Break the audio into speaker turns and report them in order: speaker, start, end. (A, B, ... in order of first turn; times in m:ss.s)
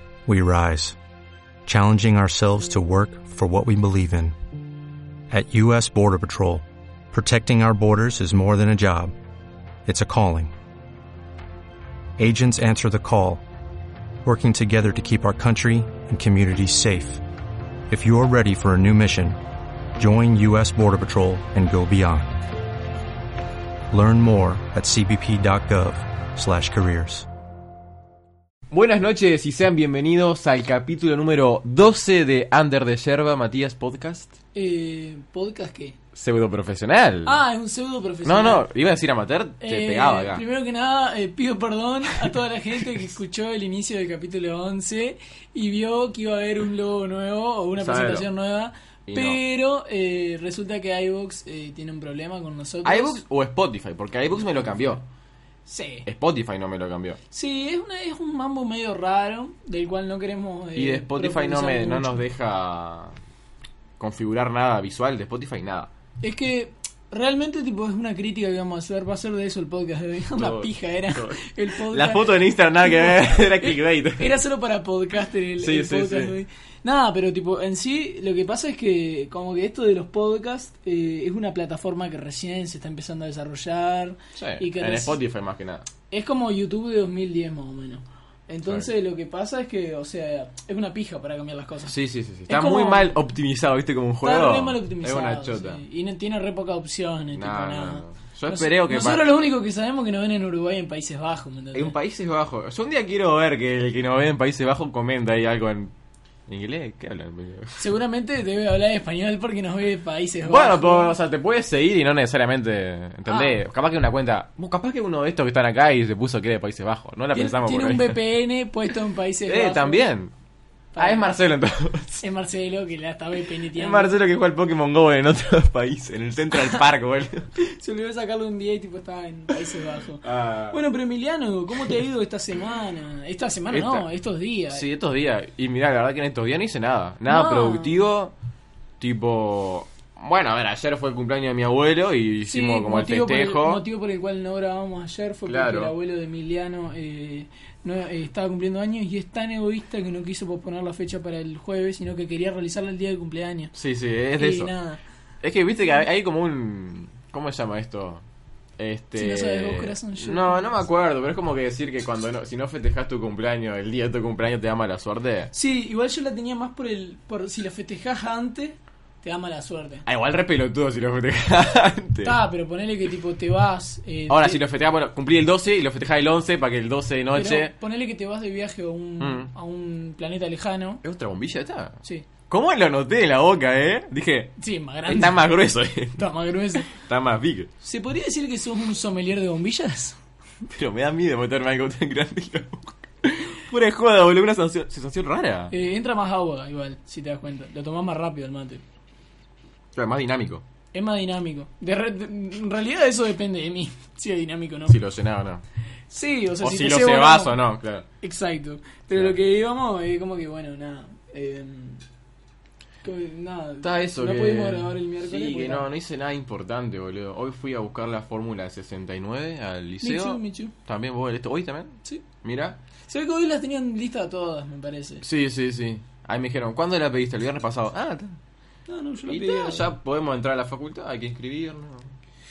0:00.3-0:01.0 A
0:01.7-0:04.4 A
0:05.3-0:09.1 A
0:09.8-0:10.5 A
0:12.2-0:13.4 A
0:14.2-0:17.2 A
0:17.9-0:19.4 A
0:20.0-0:22.5 A
0:23.9-0:27.3 A
0:28.7-0:34.3 B
0:34.6-0:36.0 C
0:36.2-0:37.4 B
0:37.2-0:38.6 C
0:38.2-0:40.4 B
0:39.6-0:53.2 C
0:47.8-0:48.3 B
0:49.1-0:49.4 B
0:52.8-0:55.0 B
0:55.7-0:56.1 C
0:56.1-0:57.2 B
0:57.3-1:02.2 C
1:00.8-1:03.2 B
1:04.0-1:05.9 B
1:06.2-1:12.3 C
1:10.4-1:14.4 B
1:12.8-1:25.2 C
1:15.6-1:16.3 B
1:24.4-1:25.9 B
1:26.1-1:31.9 C
1:31.9-1:35.8 B
1:32.5-1:33.2 C
1:34.2-1:42.0 C
1:37.4-1:39.3 B
1:41.7-1:45.9 B
1:46.5-1:47.8 B
1:47.8-1:51.2 C
1:50.4-1:58.2 B
1:53.3-1:53.6 C
1:57.3-2:00.1 C
1:59.5-2:00.3 B
2:01.0-2:01.2 C
2:01.0-2:02.2 B
2:02.2-2:04.2 C
2:03.8-2:07.5 B
2:07.6-2:14.8 C
2:10.2-2:10.8 B
2:13.7-2:14.1 B
2:14.7-2:18.3 B
2:17.3-2:18.0 C
2:19.0-2:23.8 B
2:22.5-2:33.7 C
2:25.5-2:25.9 B
2:33.8-2:34.7 B
2:34.4-2:35.0 C
2:35.4-2:38.2 B
2:38.8-2:45.5 B
2:39.2-2:40.7 C
2:45.5-2:50.1 C
2:50.1-2:52.4 B
2:52.2-2:54.6 C
2:54.3-2:57.7 B
2:57.3-3:01.0 C
2:59.2-2:59.5 B
3:01.0-3:06.3 B
3:04.6-3:05.4 C
3:06.2-3:06.9 C
3:06.8-3:07.7 B
3:07.8-3:10.2 C
3:10.7-3:15.7 B
3:15.7-3:18.8 C
3:19.9-3:20.6 B
3:20.9-3:25.0 C
3:24.9-3:25.6 B
3:26.1-3:27.6 C
3:26.6-3:28.1 B
3:28.2-3:32.0 C
3:33.0-3:35.9 C
3:33.8-3:42.8 B
3:40.0-3:40.7 C
3:43.1-3:45.2 C
3:45.2-3:48.4 B
3:48.9-3:49.9 C
3:49.3-3:52.1 B